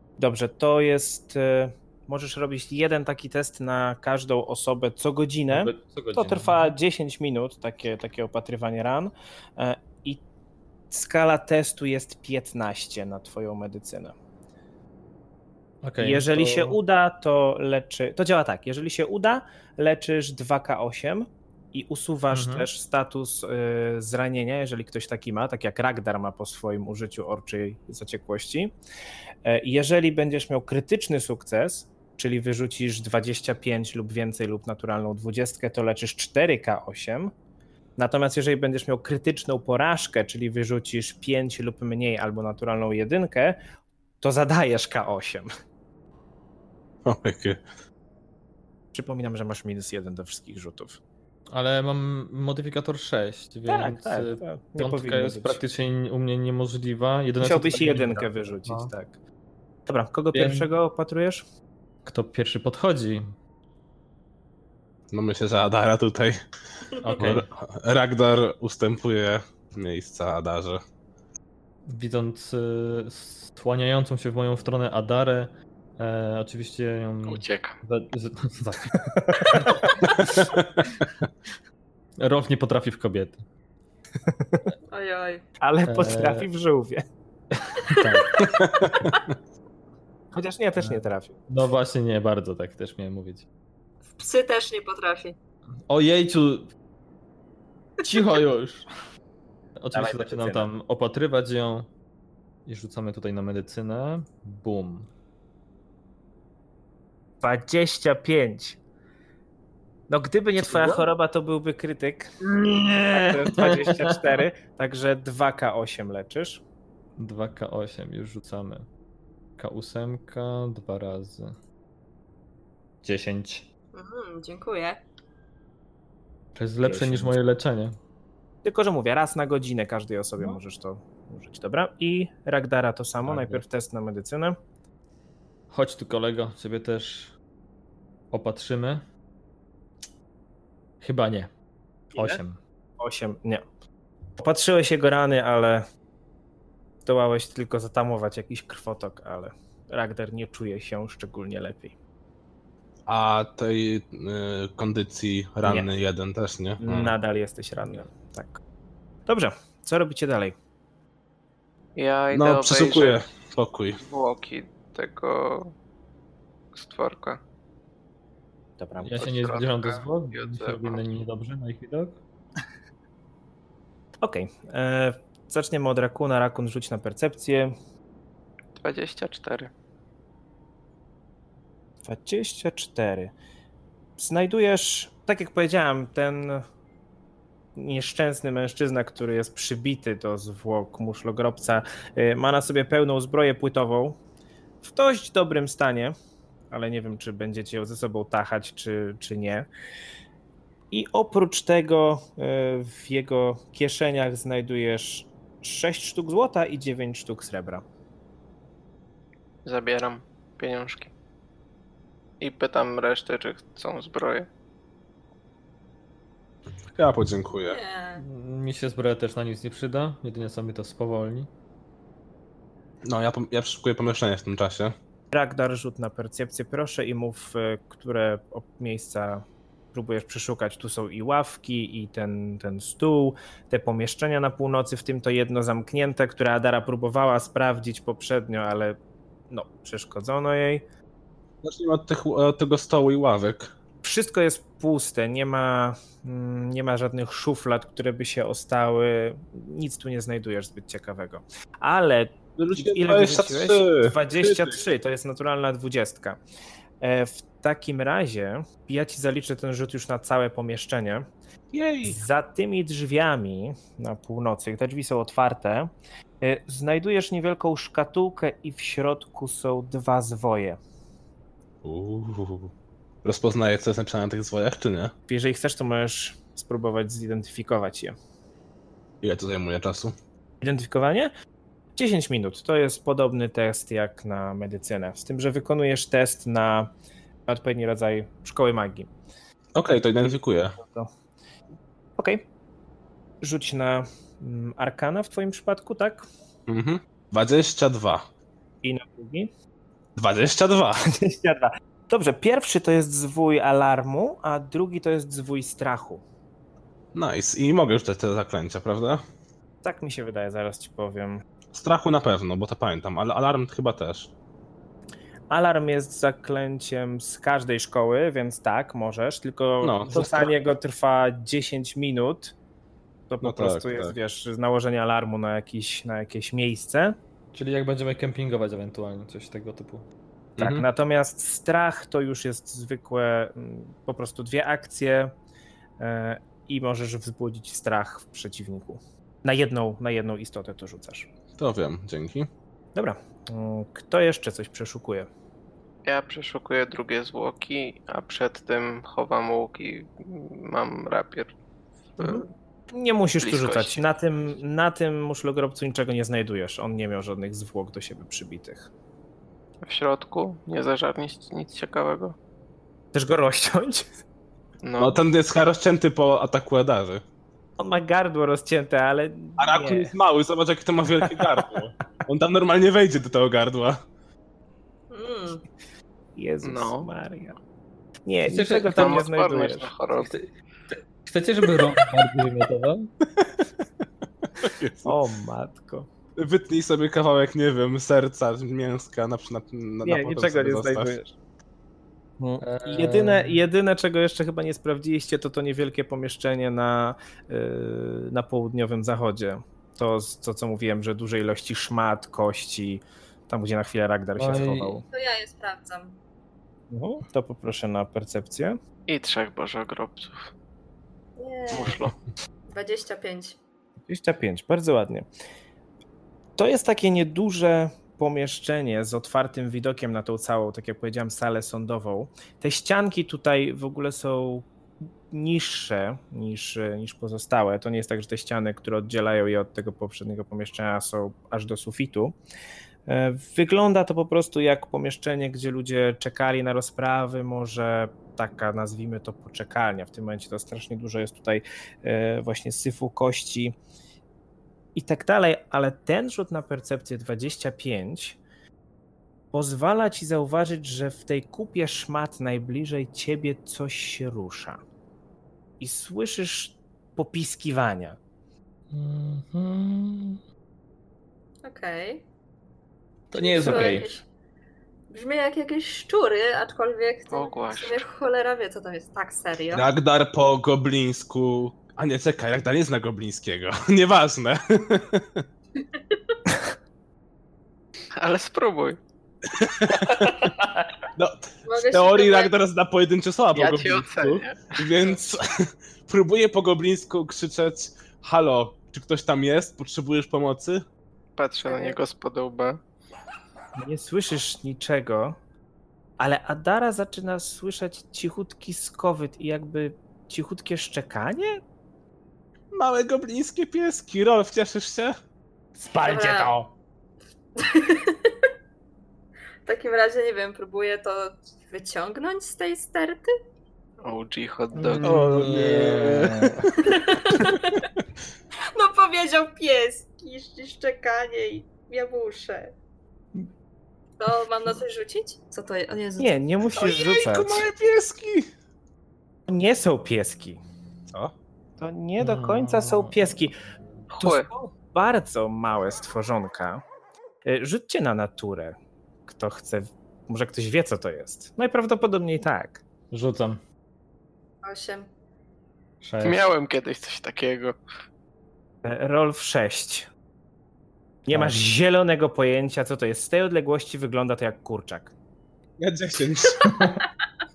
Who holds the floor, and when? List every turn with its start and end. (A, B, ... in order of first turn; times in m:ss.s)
0:00.2-0:10.2 A
0:05.5-0:06.7 B
0:10.9-0:14.1 A
0:15.8-0:16.8 B
0:16.0-0:28.7 A
0:22.3-0:22.7 B
0:29.4-0:37.3 A
0:38.0-0:43.6 A
0:44.2-0:45.5 A
0:47.0-0:47.6 C
0:48.9-0:51.0 A
0:51.5-0:58.9 B
0:53.7-0:55.6 A
0:57.4-0:59.2 A
0:59.9-1:01.4 A
1:00.3-1:00.7 B
1:02.0-1:03.3 B
1:05.1-1:06.4 C
1:07.0-1:07.4 B
1:07.2-1:10.8 C
1:11.9-1:20.1 B
1:17.3-1:17.8 D
1:19.2-1:19.6 A
1:20.2-1:20.9 C
1:22.2-1:23.4 B
1:24.2-1:24.6 A
1:24.9-1:25.4 E
1:25.6-1:27.0 A
1:25.9-1:26.5 B
1:27.7-1:29.1 B
1:28.4-1:29.2 C
1:30.3-1:31.4 A
1:30.8-1:33.5 B
1:34.1-1:35.4 E
1:35.9-1:36.7 B
1:38.0-1:38.9 B
1:39.8-1:41.9 B
1:39.9-1:40.7 A
1:42.7-1:45.1 B
1:47.4-1:48.8 A
1:50.1-1:52.3 A
1:50.6-1:51.1 B
1:52.4-1:54.4 B
1:53.1-1:56.6 A
1:57.2-1:58.9 B
1:59.6-2:01.6 B
2:03.0-2:03.7 B
2:03.9-2:05.0 E
2:06.6-2:08.0 B
2:06.8-2:07.4 A
2:08.6-2:14.6 A
2:13.2-2:13.6 B
2:15.7-2:17.3 B
2:18.3-2:19.1 B
2:21.0-2:21.5 B
2:22.1-2:22.4 A
2:22.2-2:22.6 B
2:23.0-2:23.6 A
2:24.4-2:25.8 A
2:27.0-2:31.9 A
2:33.1-2:37.2 C
2:35.6-2:35.9 A
2:36.8-2:38.6 A
2:39.3-2:40.6 A
2:42.0-2:43.3 D
2:42.3-2:44.0 C
2:44.0-2:45.7 D
2:46.7-2:47.4 D
2:48.8-2:49.2 A
2:49.0-2:52.2 B
2:49.2-2:51.0 D
2:54.2-2:57.7 A
2:58.8-2:59.7 D
3:02.0-3:03.3 A
3:04.2-3:06.6 A
3:07.8-3:14.2 A
3:14.8-3:16.2 A
3:16.7-3:19.7 A
3:20.9-3:27.8 A
3:29.6-3:31.1 D
3:32.4-3:34.5 D
3:36.9-3:37.8 C
3:37.7-3:38.2 E
3:38.2-3:41.5 B
3:43.0-3:45.0 C
3:45.3-3:59.0 A
3:59.5-4:00.8 A
4:01.6-4:03.7 C
4:04.0-4:16.4 A
4:12.6-4:14.8 C
4:17.0-4:21.3 A
4:21.7-4:22.2 C
4:22.0-4:30.8 A
4:31.8-4:32.7 C
4:33.2-4:35.1 C
4:35.3-4:38.2 A
4:39.2-4:40.1 C
4:40.6-4:41.3 A
4:42.0-4:46.9 A
4:47.5-4:49.1 A
4:49.8-4:50.8 C
4:50.8-4:51.1 A
4:52.2-4:52.5 A
4:53.4-4:56.3 A
4:56.7-4:58.3 C
4:58.8-4:59.5 A
5:00.2-5:01.0 C
5:01.1-5:06.2 A
5:07.1-5:09.2 C
5:09.8-5:11.4 A
5:11.7-5:14.3 C
5:15.5-5:22.6 A
5:19.8-5:20.5 C
5:23.3-5:27.2 A
5:23.4-5:24.1 C
5:27.5-5:30.1 B
5:30.6-5:30.8 C
5:30.6-5:35.3 A
5:36.0-5:41.3 A
5:41.6-5:42.5 C
5:43.0-5:45.3 A
5:46.1-5:51.5 D
5:52.2-5:52.5 D
5:52.2-5:58.9 A
5:53.4-5:54.0 D
5:59.8-6:02.4 D
6:03.1-6:04.1 A
6:04.8-6:05.2 D
6:05.0-6:07.2 C
6:07.8-6:10.1 A
6:09.6-6:14.0 C
6:11.2-6:11.7 A
6:15.1-6:15.6 E
6:16.4-6:17.6 A
6:16.6-6:17.1 D
6:18.3-6:19.9 A
6:18.4-6:19.2 B
6:18.9-6:20.3 D
6:20.2-6:23.1 B
6:23.4-6:23.7 C
6:24.6-6:25.2 C
6:25.0-6:26.1 A
6:26.4-6:31.1 C
6:30.0-6:31.4 A
6:32.4-6:45.0 A
6:32.6-6:33.6 B
6:44.4-6:45.0 B
6:45.1-6:46.2 E
6:46.9-6:48.8 A
6:49.1-6:50.5 D
6:51.4-6:52.0 E
6:51.7-6:52.2 D
6:52.7-6:53.6 E
6:54.1-6:55.3 A
6:56.6-7:04.7 A
7:05.3-7:12.4 A
7:13.1-7:23.8 A
7:25.0-7:28.4 A
7:29.5-7:34.8 A
7:35.8-7:38.2 A
7:38.9-7:40.4 B
7:41.6-7:42.2 E
7:43.3-7:44.2 B
7:43.3-7:44.3 E
7:45.1-7:49.9 E
7:47.3-7:48.0 D
7:49.7-7:55.4 C
7:55.8-7:56.4 E
7:58.2-7:59.0 D
7:59.5-8:00.5 C
8:01.2-8:10.8 C
8:01.7-8:02.6 E
8:03.5-8:05.2 D
8:11.4-8:12.8 D
8:11.7-8:12.0 E
8:13.8-8:15.4 A
8:16.2-8:21.6 A
8:22.7-8:25.2 C
8:25.8-8:26.7 A
8:26.0-8:26.6 E
8:27.6-8:28.3 E
8:29.6-8:33.3 E
8:34.0-8:35.1 D
8:34.8-8:36.6 A
8:35.0-8:36.4 B
8:35.0-8:36.5 C
8:36.8-8:37.9 E
8:38.7-8:42.7 E
8:44.2-8:46.3 E
8:46.2-8:47.7 A
8:46.8-8:48.5 C
8:49.5-8:50.6 A
8:51.8-8:53.6 A
8:52.2-8:53.3 B
8:54.1-8:54.5 D
8:54.2-8:56.8 A
8:57.4-9:02.8 A
9:03.1-9:03.6 B
9:04.6-9:05.1 E
9:06.0-9:06.5 B
9:06.2-9:07.8 D
9:08.8-9:10.1 A
9:11.3-9:15.1 A
9:11.3-9:11.7 B
9:15.8-9:16.8 C
9:16.6-9:17.0 E